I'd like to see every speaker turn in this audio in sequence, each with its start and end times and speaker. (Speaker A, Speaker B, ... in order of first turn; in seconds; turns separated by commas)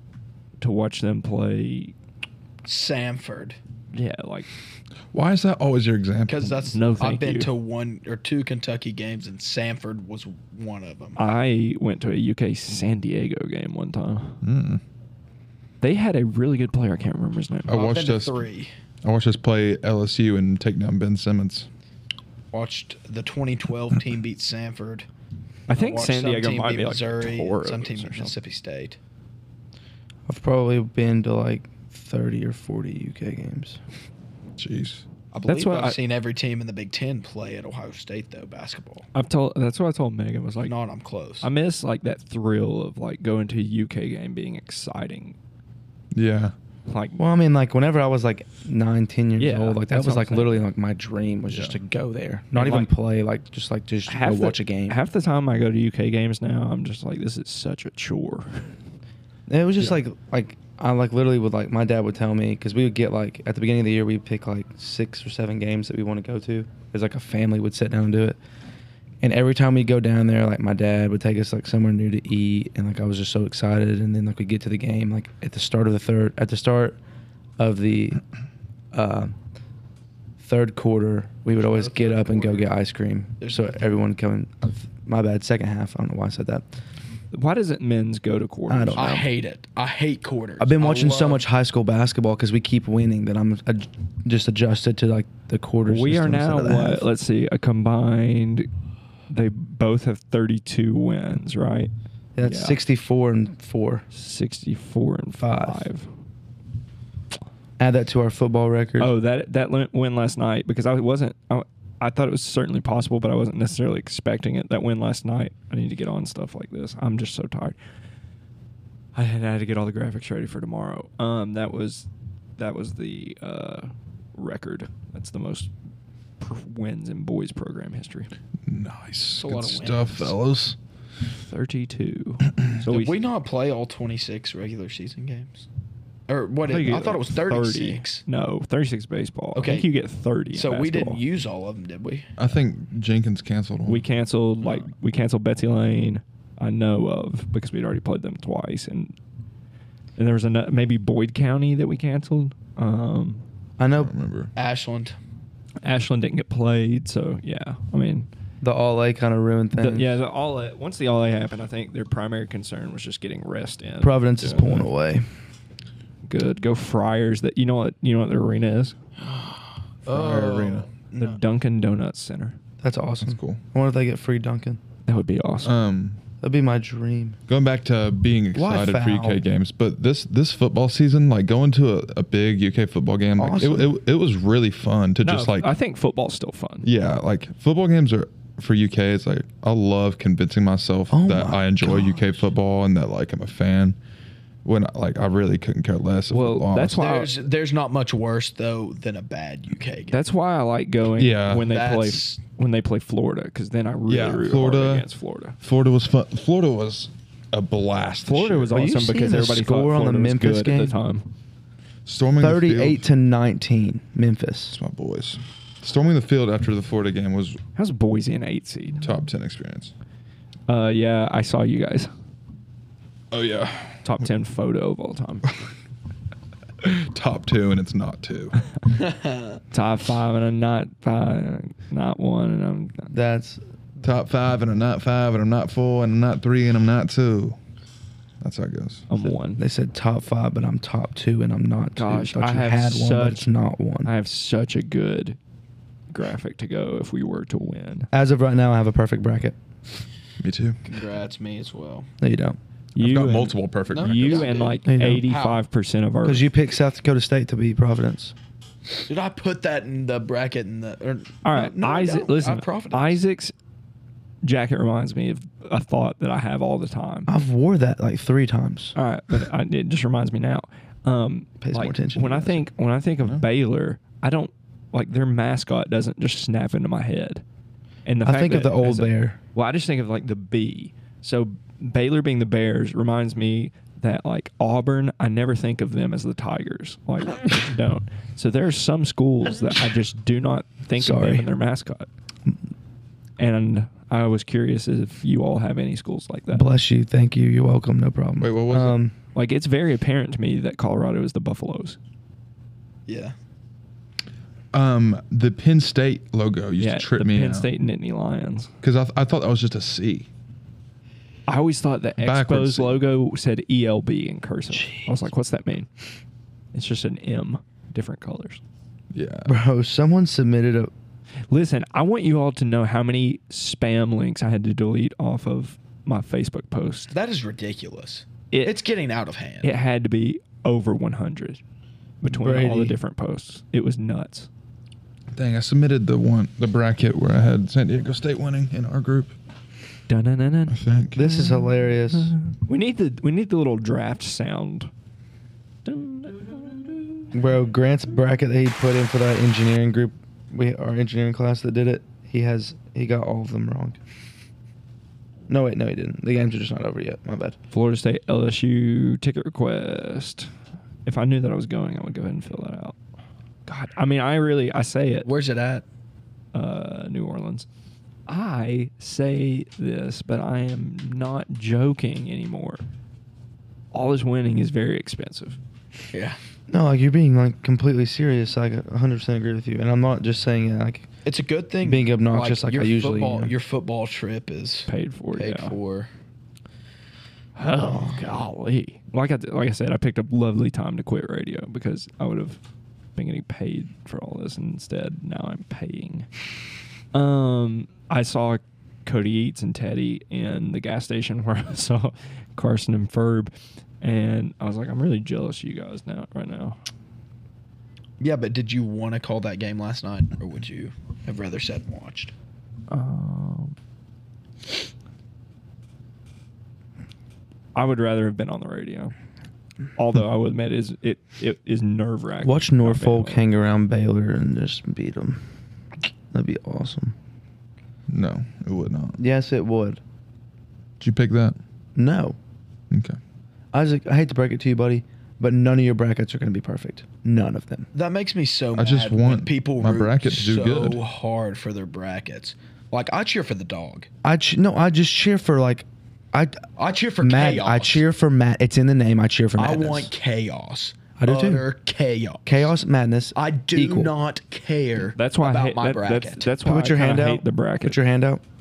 Speaker A: 0.6-1.9, Speaker B: 2.6-3.6, Speaker A: 3.9-4.5, Speaker C: 5.1-6.6, Speaker B: 6.3-11.2, Speaker A: 6.7-7.5, Speaker A: 11.2-14.4, Speaker C: 14.4-14.8, Speaker A: 15.8-17.8, Speaker C: 17.7-18.4, Speaker B: 17.7-18.7, Speaker C: 19.0-21.7, Speaker B: 22.5-25.1, Speaker A: 25.7-28.3, Speaker B: 25.7-29.0, Speaker D: 30.3-33.8, Speaker C: 34.6-35.0, Speaker B: 35.3-39.1, Speaker A: 35.4-36.0, Speaker A: 39.1-40.7, Speaker B: 40.6-41.5, Speaker A: 41.4-45.4, Speaker C: 46.1-46.5, Speaker A: 46.9-47.2, Speaker D: 47.2-55.0, Speaker A: 49.4-50.6, Speaker C: 51.5-51.8, Speaker A: 52.5-52.9, Speaker A: 54.1-58.7, Speaker D: 59.5-68.4, Speaker D: 69.2-77.0, Speaker D: 77.6-78.2, Speaker D: 78.9-79.3, Speaker D: 80.4-86.6, Speaker B: 81.5-82.7, Speaker B: 83.4-83.8, Speaker A: 87.3-89.1, Speaker D: 88.7-89.3, Speaker B: 88.9-91.4, Speaker D: 90.6-97.1, Speaker A: 95.8-98.7, Speaker A: 99.3-102.8, Speaker D: 102.3-104.0, Speaker A: 104.1-106.1, Speaker D: 105.4-105.8, Speaker D: 107.8-109.1, Speaker A: 109.0-117.8, Speaker A: 119.1-122.1, Speaker A: 122.6-125.7, Speaker A: 126.4-128.3, Speaker C: 128.7-130.8, Speaker B: 129.3-130.3, Speaker A: 131.4-133.2, Speaker B: 132.8-135.6, Speaker B: 136.3-138.2, Speaker A: 136.6-141.2, Speaker B: 139.5-139.9, Speaker B: 140.5-142.3, Speaker C: 142.4-144.1, Speaker A: 143.8-149.1, Speaker A: 150.2-153.4, Speaker D: 153.8-154.1, Speaker C: 153.9-154.5, Speaker B: 154.6-155.1, Speaker A: 155.8-158.3, Speaker D: 158.6-160.2, Speaker A: 159.8-164.9, Speaker D: 164.0-165.2, Speaker A: 166.2-168.9, Speaker B: 169.2-171.4, Speaker C: 170.1-170.9, Speaker A: 171.2-172.6, Speaker D: 172.8-174.8, Speaker C: 173.2-173.6, Speaker A: 175.1-175.7, Speaker C: 175.6-176.2, Speaker D: 176.4-177.4, Speaker C: 177.5-185.7, Speaker D: 178.5-179.4, Speaker D: 183.3-184.0, Speaker A: 185.2-186.9, Speaker C: 186.8-194.0, Speaker D: 191.1-192.5, Speaker C: 194.6-197.0, Speaker A: 196.3-197.4, Speaker B: 197.0-200.2, Speaker A: 200.1-205.6, Speaker C: 201.2-201.7, Speaker B: 201.6-202.4, Speaker C: 204.1-205.1, Speaker C: 205.6-208.8, Speaker A: 208.2-211.3, Speaker D: 208.7-211.0, Speaker C: 212.1-213.0, Speaker D: 212.4-214.8, Speaker C: 214.7-217.6, Speaker A: 217.8-219.1, Speaker C: 219.0-219.9, Speaker A: 220.7-222.1, Speaker C: 223.3-224.2, Speaker A: 224.0-225.5, Speaker C: 226.8-228.6, Speaker B: 229.0-229.6, Speaker A: 229.7-233.1, Speaker D: 233.1-233.6, Speaker C: 234.0-237.6, Speaker C: 238.4-239.1, Speaker A: 239.1-239.6, Speaker D: 239.6-244.1, Speaker A: 241.9-243.5, Speaker A: 244.0-245.4, Speaker A: 246.1-248.1, Speaker D: 248.1-249.6, Speaker C: 250.4-250.8, Speaker B: 250.9-252.1, Speaker D: 252.2-252.6, Speaker A: 252.9-256.5, Speaker C: 253.0-254.7, Speaker B: 253.9-255.6, Speaker D: 254.8-255.3, Speaker D: 256.2-258.3, Speaker B: 259.1-263.2, Speaker A: 261.4-263.5, Speaker A: 264.4-267.3, Speaker D: 267.3-268.9, Speaker A: 268.9-277.4, Speaker D: 271.6-272.6, Speaker A: 278.0-292.1, Speaker D: 278.2-279.4, Speaker D: 291.0-291.5, Speaker A: 293.4-296.7, Speaker D: 296.5-299.1, Speaker C: 298.4-299.0, Speaker A: 299.3-302.0, Speaker B: 303.1-303.3, Speaker C: 304.7-307.7, Speaker A: 306.8-308.7, Speaker C: 308.8-310.3, Speaker A: 311.5-315.9, Speaker C: 312.2-313.0, Speaker D: 314.7-315.1, Speaker A: 316.7-318.6, Speaker C: 319.1-319.5, Speaker D: 319.4-320.9, Speaker A: 321.5-327.1, Speaker B: 327.1-329.7, Speaker A: 328.5-328.8, Speaker A: 329.6-331.6, Speaker A: 332.2-334.5, Speaker D: 332.2-333.0, Speaker C: 335.3-339.3, Speaker A: 340.1-344.9, Speaker C: 340.7-341.2, Speaker D: 341.1-342.3, Speaker A: 345.8-347.3, Speaker D: 347.3-354.0, Speaker D: 355.5-357.6, Speaker A: 357.7-360.5, Speaker A: 361.1-362.9, Speaker A: 363.7-365.3, Speaker B: 365.2-365.8, Speaker A: 366.5-367.7, Speaker A: 368.3-372.8, Speaker A: 373.9-375.6, Speaker B: 376.1-376.4, Speaker D: 376.7-381.1, Speaker B: 381.2-386.1, Speaker D: 381.8-383.5, Speaker A: 384.9-385.7, Speaker A: 387.6-392.6, Speaker A: 393.1-396.3, Speaker A: 397.1-406.8, Speaker B: 408.2-412.3, Speaker A: 412.9-413.7, Speaker A: 417.7-419.1, Speaker A: 419.9-423.4, Speaker D: 422.4-425.4, Speaker D: 426.3-427.1, Speaker C: 428.1-429.2, Speaker D: 429.2-430.0, Speaker C: 431.0-431.6, Speaker D: 431.9-432.4, Speaker C: 432.9-433.2, Speaker D: 433.7-437.9, Speaker B: 437.9-444.1, Speaker C: 438.8-441.0, Speaker D: 444.2-446.6, Speaker B: 446.8-448.0, Speaker D: 447.2-450.1, Speaker B: 449.6-452.7, Speaker D: 451.2-451.6, Speaker D: 452.4-454.1, Speaker B: 453.3-456.5, Speaker A: 455.1-458.0, Speaker D: 456.6-458.4